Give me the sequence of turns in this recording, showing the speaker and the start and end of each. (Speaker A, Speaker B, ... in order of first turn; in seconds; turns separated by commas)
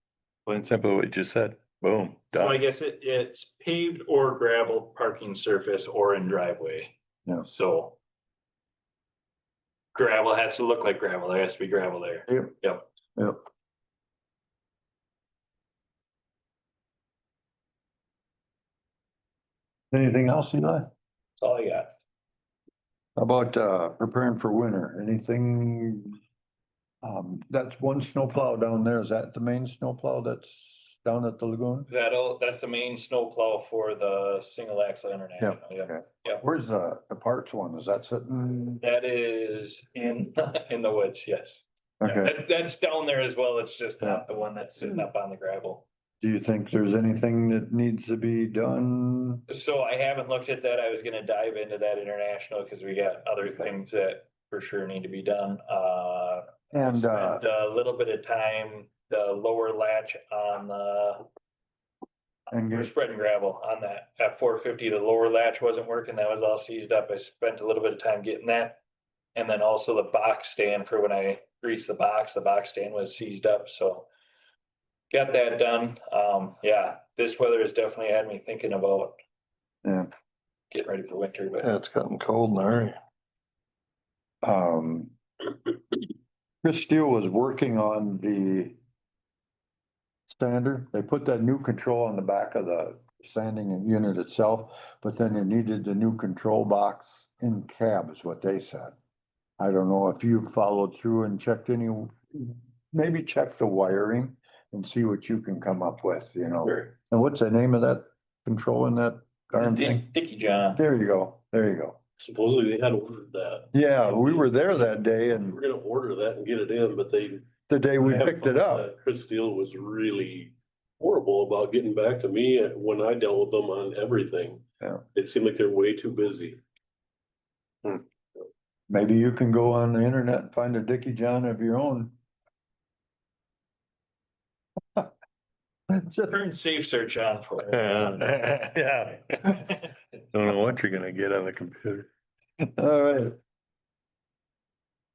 Speaker A: 0.5-2.6, Speaker B: 2.3-8.0, Speaker B: 9.9-12.8, Speaker C: 12.3-12.5, Speaker C: 19.9-20.9, Speaker B: 21.4-22.0, Speaker C: 23.2-26.2, Speaker C: 27.0-31.9, Speaker B: 31.9-36.4, Speaker C: 35.4-38.8, Speaker B: 38.8-45.9, Speaker C: 42.0-42.4, Speaker C: 46.2-49.4, Speaker B: 49.5-61.2, Speaker C: 56.7-57.4, Speaker C: 62.5-62.9, Speaker B: 62.7-68.8, Speaker B: 69.3-74.1, Speaker B: 75.1-79.2, Speaker C: 79.8-80.1, Speaker B: 80.7-81.7, Speaker A: 81.6-83.0, Speaker C: 84.4-85.1, Speaker C: 86.6-88.8, Speaker C: 90.3-98.9, Speaker C: 99.6-110.1, Speaker B: 106.6-106.9, Speaker B: 109.5-110.8, Speaker C: 110.7-112.0, Speaker D: 112.2-114.7, Speaker C: 113.7-115.6, Speaker D: 115.3-126.6, Speaker C: 117.7-118.9, Speaker C: 128.9-132.1, Speaker C: 135.9-136.3, Speaker B: 136.3-138.2, Speaker A: 137.7-139.8, Speaker A: 140.3-142.1, Speaker C: 142.8-143.3